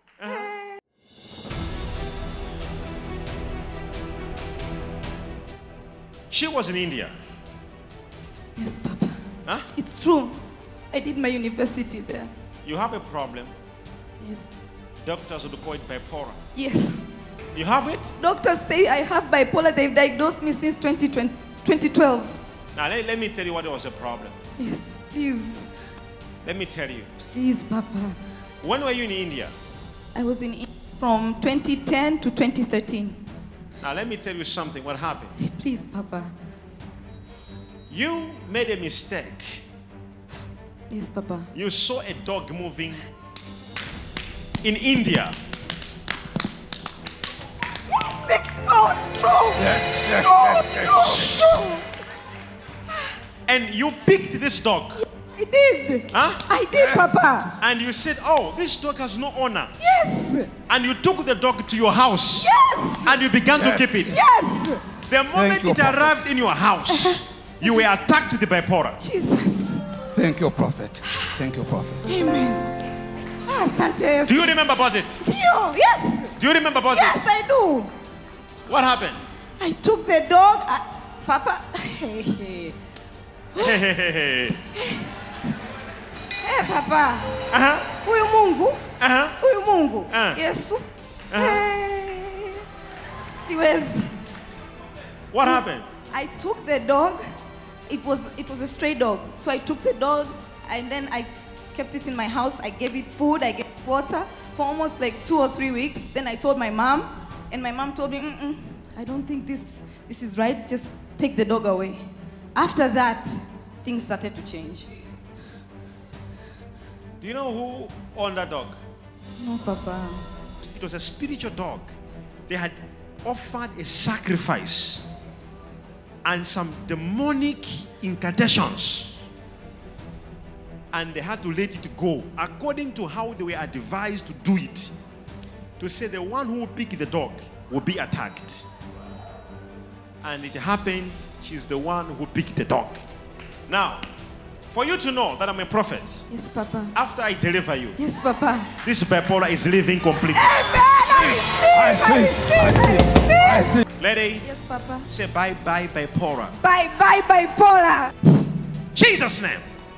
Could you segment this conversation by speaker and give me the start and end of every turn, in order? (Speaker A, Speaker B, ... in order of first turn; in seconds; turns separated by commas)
Speaker A: 0.2-0.5, Speaker B: 0.2-0.8, Speaker A: 6.3-7.2, Speaker B: 8.6-9.2, Speaker B: 9.7-10.4, Speaker B: 10.9-12.3, Speaker A: 12.6-13.5, Speaker B: 14.2-14.6, Speaker A: 15.0-16.4, Speaker B: 16.6-17.1, Speaker A: 17.5-18.1, Speaker B: 18.2-22.4, Speaker A: 22.8-24.4, Speaker B: 24.6-25.7, Speaker A: 26.4-27.1, Speaker B: 27.2-28.2, Speaker A: 28.6-29.5, Speaker B: 30.1-33.2, Speaker A: 33.8-35.3, Speaker B: 35.4-36.3, Speaker A: 37.9-39.6, Speaker B: 40.9-41.5, Speaker A: 41.5-43.0, Speaker A: 44.6-45.3, Speaker B: 47.9-51.9, Speaker C: 49.6-51.4, Speaker A: 53.5-55.0, Speaker B: 55.0-57.5, Speaker A: 56.1-56.5, Speaker C: 56.8-57.2, Speaker A: 57.6-59.7, Speaker B: 59.8-60.5, Speaker A: 60.7-62.5, Speaker B: 62.4-63.2, Speaker A: 63.0-64.2, Speaker C: 63.5-64.2, Speaker B: 64.0-64.8, Speaker A: 65.1-69.0, Speaker C: 65.3-66.1, Speaker B: 66.9-67.8, Speaker B: 69.0-69.8, Speaker C: 70.1-72.0, Speaker B: 71.0-71.4, Speaker B: 72.0-72.7, Speaker B: 73.5-74.6, Speaker A: 74.2-75.2, Speaker B: 75.2-76.3, Speaker A: 76.4-77.2, Speaker B: 76.9-77.9, Speaker A: 78.7-79.2, Speaker B: 79.6-82.8, Speaker B: 83.5-83.8, Speaker A: 83.6-84.6, Speaker B: 84.7-85.1, Speaker B: 86.4-87.5, Speaker A: 87.5-87.9, Speaker B: 88.0-88.9, Speaker A: 89.0-89.4, Speaker B: 89.4-92.6, Speaker A: 90.1-90.4, Speaker A: 91.3-91.7, Speaker B: 93.5-94.2, Speaker A: 95.3-95.9, Speaker B: 95.4-97.2, Speaker B: 97.9-112.0, Speaker B: 112.5-114.9, Speaker A: 117.2-118.8, Speaker B: 119.4-120.3, Speaker A: 120.7-121.9, Speaker A: 122.5-125.0, Speaker A: 126.2-129.2, Speaker A: 130.9-134.9, Speaker A: 135.8-138.7, Speaker A: 140.2-143.0, Speaker A: 143.7-144.1, Speaker A: 144.7-146.2, Speaker B: 146.3-146.9, Speaker A: 146.9-148.0, Speaker B: 148.0-148.7, Speaker A: 148.8-150.6, Speaker B: 150.3-153.8, Speaker C: 151.1-153.8, Speaker A: 154.0-154.5, Speaker B: 154.4-155.1, Speaker A: 155.1-156.6, Speaker B: 156.6-158.2, Speaker A: 158.9-159.7